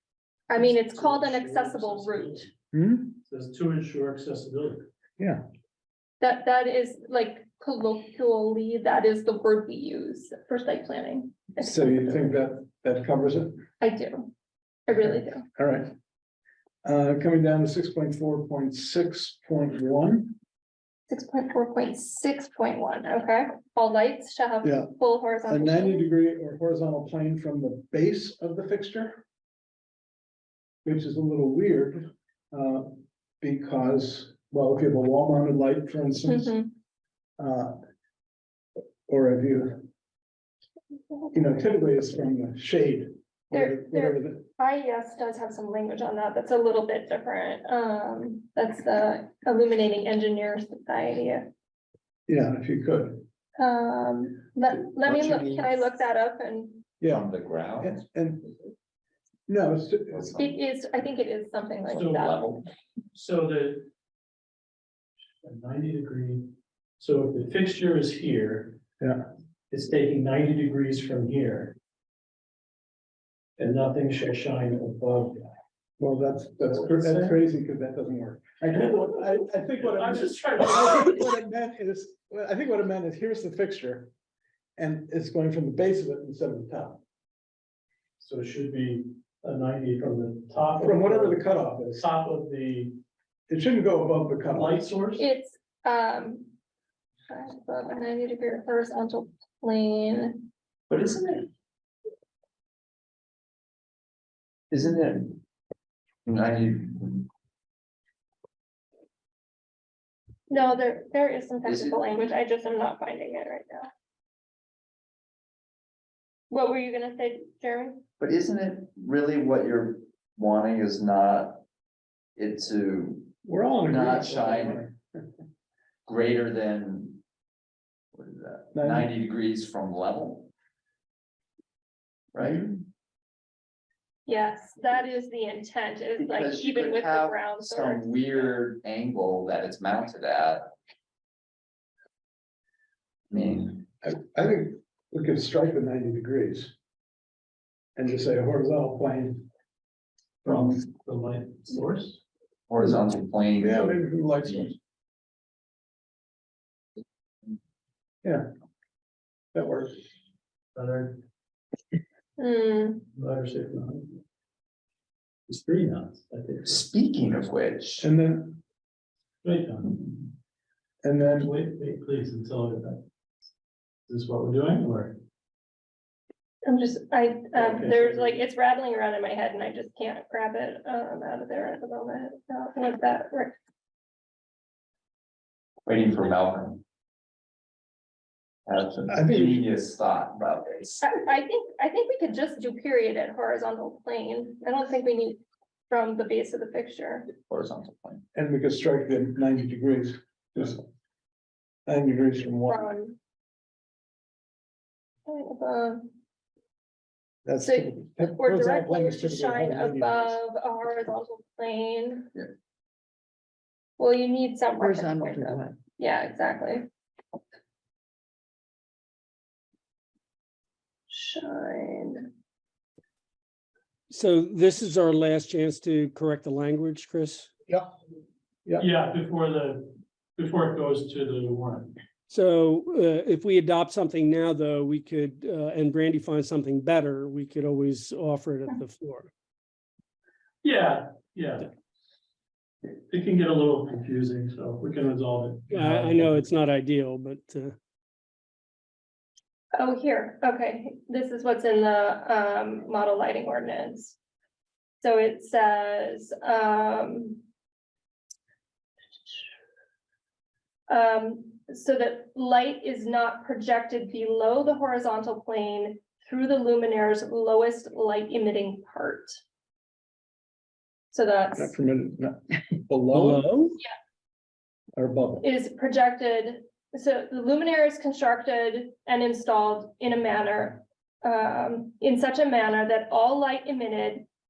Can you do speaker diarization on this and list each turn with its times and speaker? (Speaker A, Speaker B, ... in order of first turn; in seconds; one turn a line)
Speaker A: 0.5-2.5
Speaker B: 0.6-2.5
Speaker C: 2.7-3.2
Speaker B: 3.3-4.9
Speaker C: 5.2-5.4
Speaker A: 6.2-12.2
Speaker C: 11.6-13.6
Speaker A: 13.8-14.3
Speaker A: 14.9-15.4
Speaker C: 15.6-15.9
Speaker C: 16.8-20.4
Speaker A: 21.1-26.1
Speaker C: 24.6-24.9
Speaker C: 25.5-29.2
Speaker C: 30.9-36.5
Speaker A: 36.3-36.7
Speaker C: 37.4-37.8
Speaker C: 39.1-39.9
Speaker C: 41.3-44.5
Speaker A: 43.5-51.5
Speaker C: 52.3-53.2
Speaker A: 53.6-56.9
Speaker D: 54.9-55.9
Speaker C: 57.0-57.3
Speaker D: 57.1-58.0
Speaker C: 57.8-58.6
Speaker C: 59.5-60.4
Speaker D: 60.1-60.5
Speaker A: 60.4-62.4
Speaker B: 61.9-62.3
Speaker D: 62.0-62.6
Speaker B: 63.1-63.9
Speaker B: 65.4-68.8
Speaker C: 69.0-69.3
Speaker B: 69.7-71.8
Speaker B: 73.6-75.5
Speaker C: 76.0-84.1
Speaker B: 76.7-77.4
Speaker B: 79.8-81.2
Speaker C: 84.8-87.0
Speaker B: 88.2-91.4
Speaker C: 90.8-92.0
Speaker B: 92.0-93.0
Speaker C: 93.5-94.8
Speaker B: 94.5-95.2
Speaker A: 95.2-96.5
Speaker A: 97.3-100.5
Speaker D: 100.9-101.5
Speaker D: 104.7-105.4
Speaker D: 106.3-107.3
Speaker A: 110.5-113.9
Speaker D: 111.7-112.3
Speaker A: 116.5-118.0
Speaker D: 118.2-121.6
Speaker D: 122.4-123.3
Speaker C: 123.4-125.0
Speaker D: 123.9-124.8
Speaker D: 126.1-127.2
Speaker D: 128.1-130.5
Speaker C: 128.8-129.1
Speaker D: 132.3-132.7
Speaker A: 134.3-138.5
Speaker D: 136.2-140.7
Speaker D: 143.3-143.9
Speaker C: 144.0-146.7
Speaker C: 148.0-149.4
Speaker C: 150.4-150.8
Speaker B: 150.5-152.2
Speaker D: 152.7-154.0
Speaker C: 153.6-154.8
Speaker C: 159.5-160.0
Speaker B: 160.8-161.2
Speaker A: 162.4-163.1
Speaker B: 163.1-164.2
Speaker B: 165.5-166.8
Speaker D: 166.7-168.1
Speaker C: 168.0-168.6
Speaker B: 169.4-170.3
Speaker C: 171.0-171.5
Speaker B: 171.4-173.0
Speaker B: 174.1-175.2
Speaker A: 176.7-183.6
Speaker B: 177.5-178.4
Speaker D: 185.9-186.8
Speaker D: 188.7-191.1
Speaker C: 189.1-189.6
Speaker A: 191.0-197.3
Speaker D: 197.5-198.2
Speaker C: 198.3-200.8
Speaker C: 201.9-202.9
Speaker A: 202.7-203.2
Speaker A: 205.3-206.2
Speaker C: 207.4-210.4
Speaker A: 207.6-212.3
Speaker A: 214.0-216.9
Speaker D: 214.8-215.8
Speaker A: 221.1-222.3
Speaker E: 224.1-227.5
Speaker B: 228.8-231.9
Speaker E: 232.3-239.3
Speaker B: 240.6-241.7
Speaker B: 243.1-246.4
Speaker E: 245.7-247.8
Speaker A: 249.8-254.2
Speaker A: 255.0-257.4
Speaker A: 260.9-269.4
Speaker A: 271.1-271.7
Speaker C: 271.6-273.4
Speaker E: 273.1-273.8
Speaker C: 275.0-275.5
Speaker A: 275.4-284.3